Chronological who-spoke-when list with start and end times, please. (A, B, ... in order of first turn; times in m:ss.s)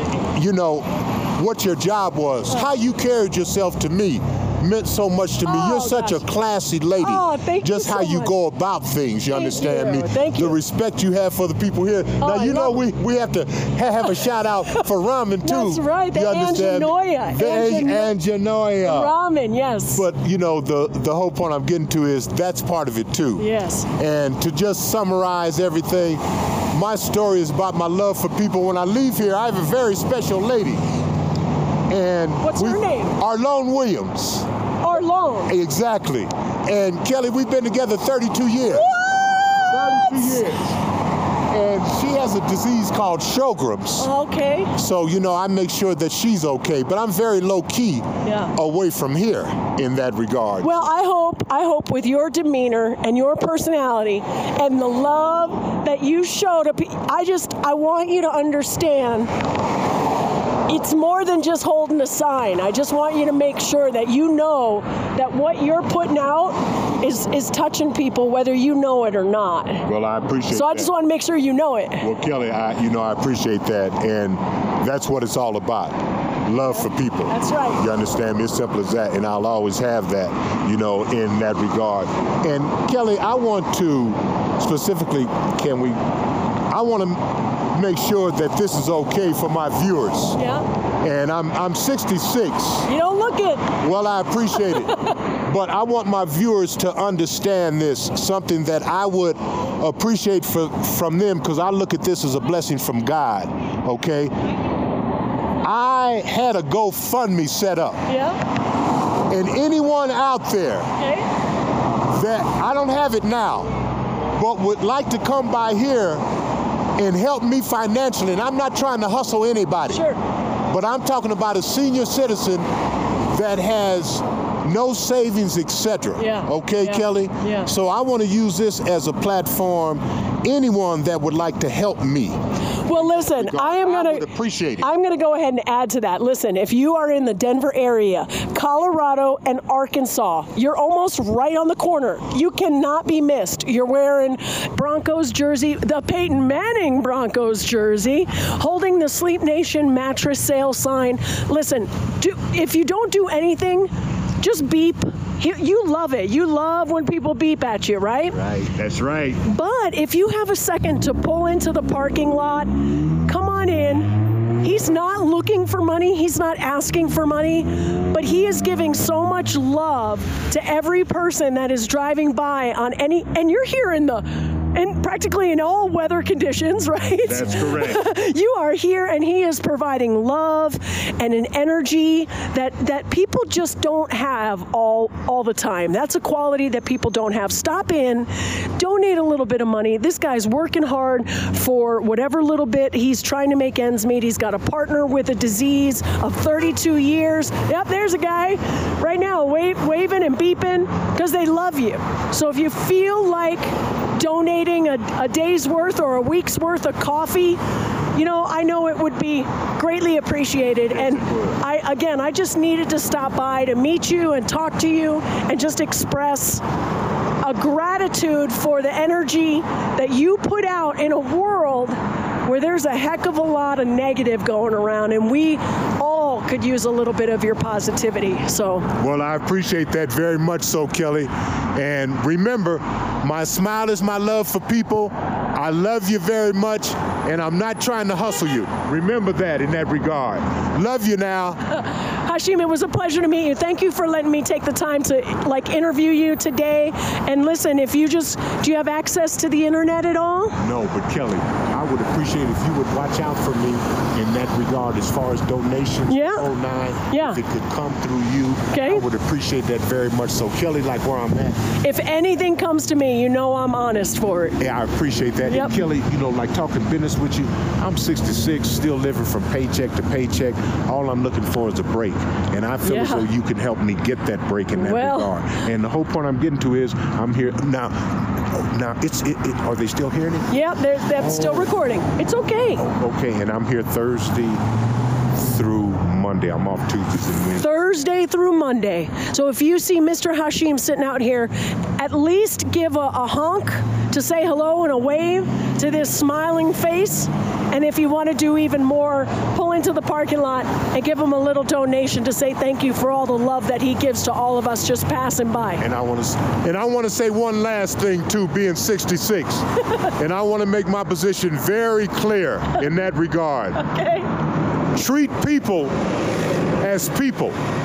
0:00.3-0:19.1 A
0:05.4-0:06.2 B
0:07.0-0:08.3 B
0:09.3-0:10.6 B
0:12.2-0:12.8 B
0:14.0-0:14.8 B
0:15.4-0:18.1 B
0:18.8-0:20.0 B
0:19.9-0:26.2 A
0:23.4-0:23.9 B
0:26.7-0:30.8 A
0:31.9-0:34.4 A
0:32.4-0:33.2 B
0:34.8-0:35.5 B
0:35.5-0:38.9 A
0:38.7-0:40.4 B
0:39.7-0:40.8 A
0:41.5-0:44.1 A
0:44.0-0:44.7 B
0:44.7-0:50.8 A
0:48.2-0:48.5 B
0:50.6-0:59.3 B
1:00.7-1:09.8 B
1:09.8-1:10.9 A
1:10.5-1:12.0 B
1:12.0-1:26.0 A
1:16.6-1:17.8 B
1:26.7-1:30.4 A
1:30.4-1:30.6 B
1:31.0-1:32.9 A
1:32.9-1:33.7 B
1:33.8-1:44.3 A
1:34.5-1:35.1 B
1:45.6-1:48.0 A
1:48.1-1:48.4 B
1:49.3-1:50.9 A
1:51.0-1:51.3 B
1:52.1-1:53.7 A
1:54.4-1:56.2 A
1:57.0-2:00.0 A
1:59.9-2:00.2 B
2:00.7-2:02.6 A
2:03.3-2:12.4 A
2:06.2-2:07.7 B
2:12.8-2:38.4 B
2:12.9-2:14.9 A
2:38.3-2:39.4 A
2:39.4-3:27.6 B
2:57.2-2:58.0 A
3:28.1-3:36.6 B
3:30.9-3:31.6 A
3:37.4-3:48.9 B
3:49.0-4:01.6 A
4:01.7-4:10.6 B
4:10.6-4:21.6 A
4:16.1-4:16.5 B
4:17.1-4:17.4 B
4:18.7-4:19.0 B
4:21.8-4:24.6 B
4:24.6-4:40.5 A
4:25.4-4:25.8 B
4:32.8-4:33.2 B
4:34.8-4:35.3 B
4:40.5-4:42.8 B
4:41.2-4:41.7 A
4:42.8-4:44.6 A
4:45.4-4:47.7 A
4:47.6-5:05.8 B
5:05.8-5:09.6 A
5:10.2-5:13.8 A
5:13.8-5:14.3 B
5:14.9-5:15.9 A
5:16.8-5:17.6 A